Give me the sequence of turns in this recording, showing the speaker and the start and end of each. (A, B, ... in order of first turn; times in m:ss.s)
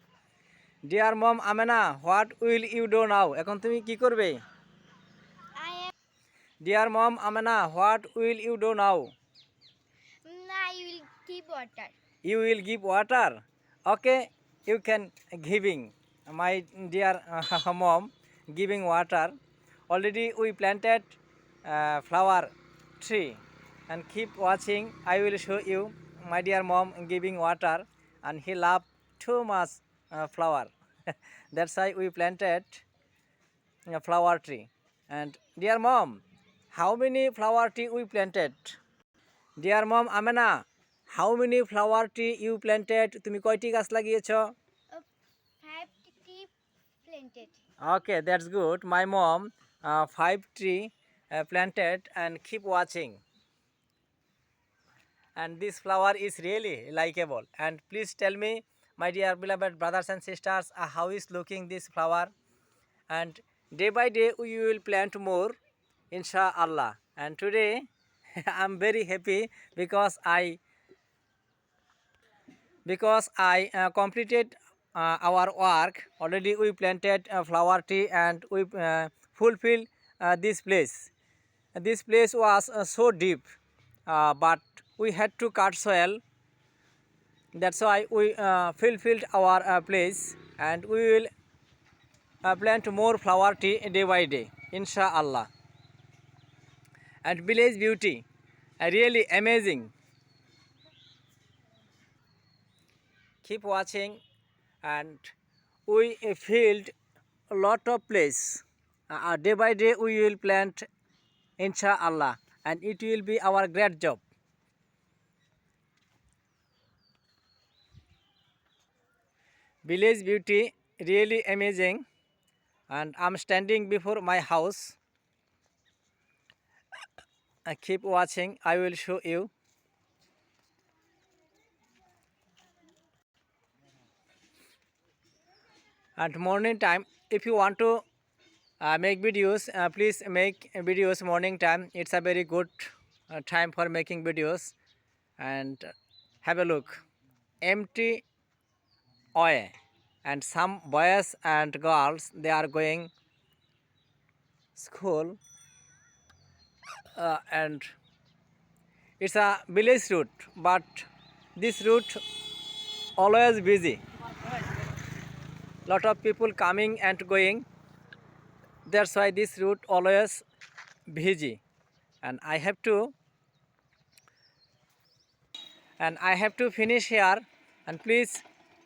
0:00.8-0:04.4 A
0:05.6-0:05.9 B
0:06.6-0:09.1 A
0:10.2-0:11.9 B
0:12.2-0:19.3 A
0:19.9-0:30.7 A
0:31.5-0:32.8 A
0:33.9-0:36.2 A
0:36.7-0:38.8 A
0:39.6-0:40.6 A
0:41.1-0:44.5 A
0:45.6-0:46.5 B
0:47.0-0:47.6 B
0:47.8-0:53.2 A
0:55.4-1:02.3 A
1:03.1-1:05.6 A
1:06.1-1:07.8 A
1:08.4-1:10.6 A
1:12.8-1:21.1 A
1:21.8-1:23.4 A
1:24.1-1:26.2 A
1:27.5-1:31.3 A
1:32.4-1:35.5 A
1:37.2-1:38.2 A
1:38.8-1:39.9 A
1:43.4-1:44.2 A
1:44.8-1:45.3 A
1:45.9-1:46.9 A
1:47.5-1:50.9 A
1:51.6-1:54.2 A
1:59.8-2:02.0 A
2:02.9-2:05.0 A
2:07.6-2:09.5 A
2:16.2-2:18.0 A
2:18.8-2:24.7 A
2:25.4-2:25.9 A
2:26.4-2:27.0 A
2:27.6-2:28.2 A
2:29.4-2:29.7 A
2:30.2-2:33.1 A
2:34.7-2:35.4 A
2:37.2-2:37.9 A
2:39.2-2:42.2 A
2:43.2-2:44.0 A
2:45.8-2:47.6 A
2:48.8-2:50.4 A
2:51.1-2:51.6 A
2:52.2-2:53.1 A
2:56.0-2:58.4 A